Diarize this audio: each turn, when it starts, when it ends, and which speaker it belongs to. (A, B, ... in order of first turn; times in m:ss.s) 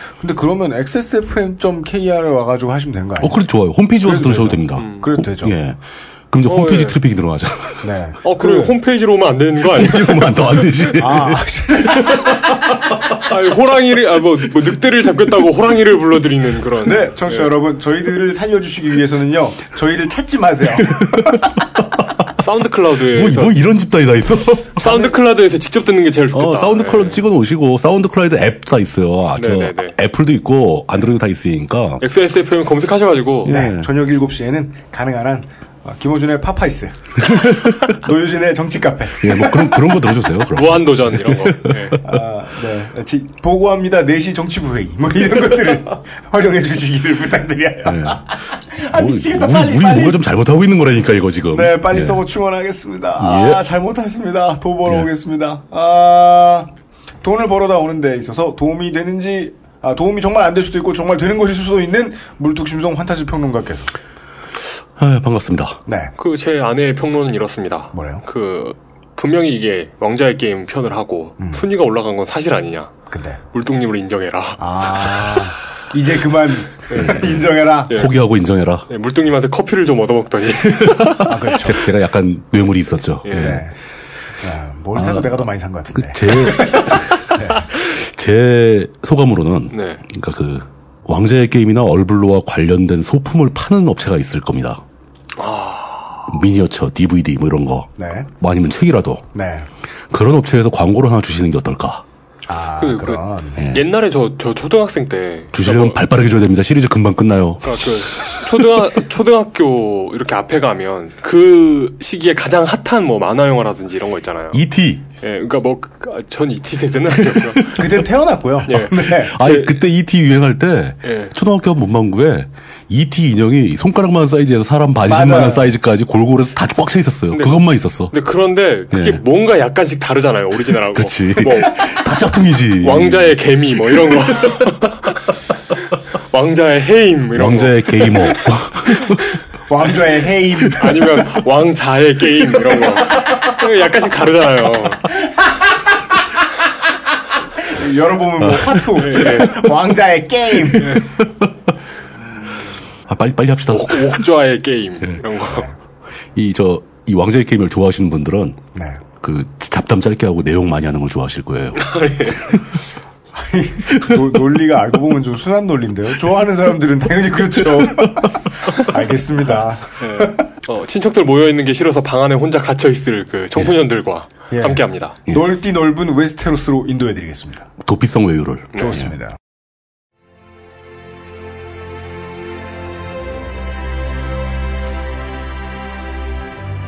0:00.2-0:03.4 A
0:03.2-0:05.8 B
0:04.0-0:05.6 A
0:04.8-0:05.1 C
0:06.3-0:07.9 B
0:06.4-0:07.0 C
0:07.8-0:08.7 A
0:08.2-0:10.9 C
0:09.7-0:12.7 B
0:11.0-0:12.5 A
0:13.2-0:17.6 C
0:16.8-0:21.6 A
0:20.8-0:21.8 B
0:22.4-0:23.6 C
0:23.1-0:25.1 B
0:24.8-0:27.2 C
0:26.3-0:32.0 B
0:29.4-0:30.0 C
0:32.0-0:33.6 C
0:33.4-0:33.9 B
0:33.4-0:39.8 A
0:37.3-0:37.6 B
0:39.2-0:42.0 B
0:40.5-0:42.0 C
0:42.0-0:50.2 A
0:47.8-0:48.2 B
0:48.8-0:52.2 B
0:51.5-0:56.7 A
0:53.2-0:53.6 B
0:57.2-1:03.9 A
1:05.0-1:05.8 B
1:05.8-1:06.1 A
1:06.2-1:15.5 C
1:07.9-1:08.2 A
1:11.4-1:11.6 A
1:13.1-1:13.4 A
1:14.6-1:18.0 A
1:16.9-1:18.2 C
1:16.9-1:18.9 B
1:18.9-1:21.3 C
1:20.7-1:23.6 B
1:21.2-1:21.8 A
1:23.2-1:23.6 C
1:23.4-1:23.7 A
1:24.4-1:27.7 A
1:24.9-1:27.2 B
1:27.8-1:34.8 B
1:29.7-1:30.0 C
1:35.4-1:36.3 C
1:36.3-1:39.2 B
1:38.0-1:38.3 A
1:39.3-1:39.7 A
1:40.1-1:42.0 B
1:42.5-1:43.6 A
1:42.8-1:46.0 C
1:43.6-1:43.9 B
1:45.5-1:48.9 B
1:47.6-1:54.6 C
1:54.5-1:55.0 B
1:55.2-1:58.0 C
1:57.2-1:57.6 B
1:57.8-1:59.3 A
1:58.6-1:59.8 C
1:59.1-2:08.1 B
2:01.0-2:01.3 C
2:05.0-2:05.7 A
2:07.3-2:11.9 C
2:08.9-2:09.2 B
2:10.9-2:14.5 B
2:12.8-2:15.3 C
2:16.3-2:19.2 C
2:17.3-2:19.3 B
2:19.7-2:21.2 A
2:20.8-2:25.0 C
2:25.1-2:26.2 A
2:27.6-2:31.1 A
2:28.4-2:29.2 B
2:29.0-2:29.8 C
2:30.8-2:31.5 B
2:33.1-2:34.2 B
2:33.7-2:35.7 C
2:36.3-2:38.6 B
2:38.7-2:39.0 A
2:39.2-2:42.6 B
2:41.8-2:42.7 C
2:43.3-2:50.4 A
2:47.5-2:48.2 B
2:50.0-2:55.2 C
2:54.5-2:57.7 A
2:57.8-2:59.1 B
2:58.7-2:59.0 C
2:58.8-2:59.4 A